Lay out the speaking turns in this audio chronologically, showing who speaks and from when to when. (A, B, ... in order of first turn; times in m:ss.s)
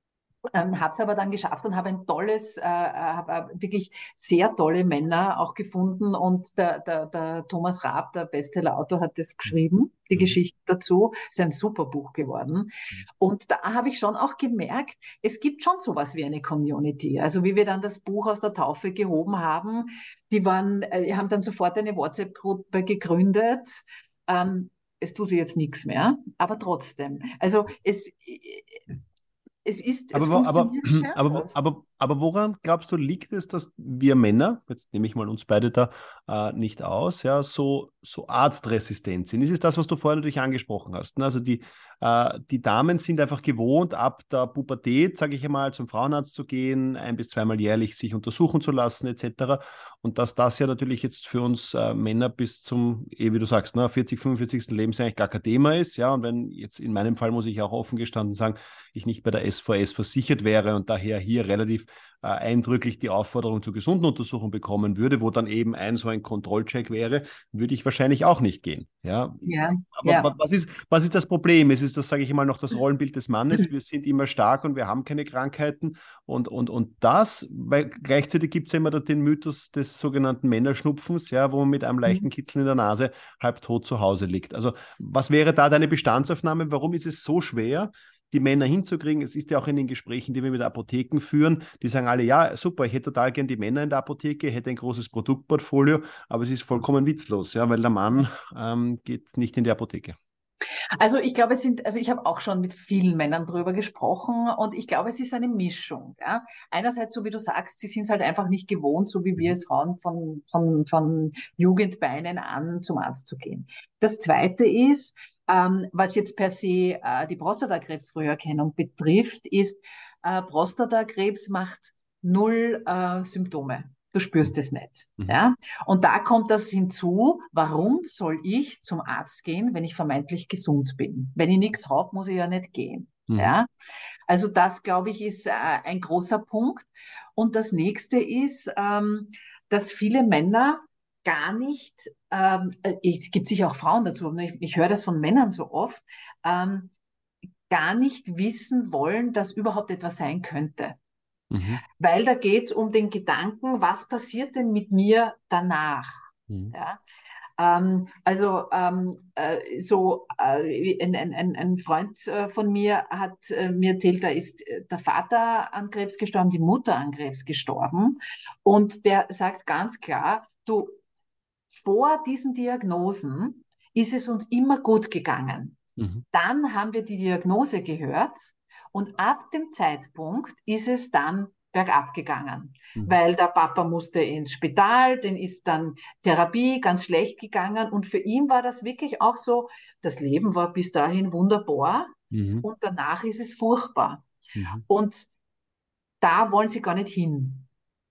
0:00.5-0:29.0 A
0:29.6-0:31.6 A
0:30.1-1:40.2 B
1:09.4-1:10.3 A
1:41.0-2:13.7 A
2:13.3-2:13.5 B
2:14.3-2:26.9 A
2:27.7-2:31.0 A
2:31.5-2:31.8 B
2:32.0-2:37.0 A
2:37.6-2:51.0 A
2:51.7-2:55.8 A
2:56.0-2:56.2 B
2:56.3-3:14.2 A
3:12.3-3:12.6 B
3:14.6-3:14.8 B
3:14.9-3:15.3 A
3:16.2-3:17.7 A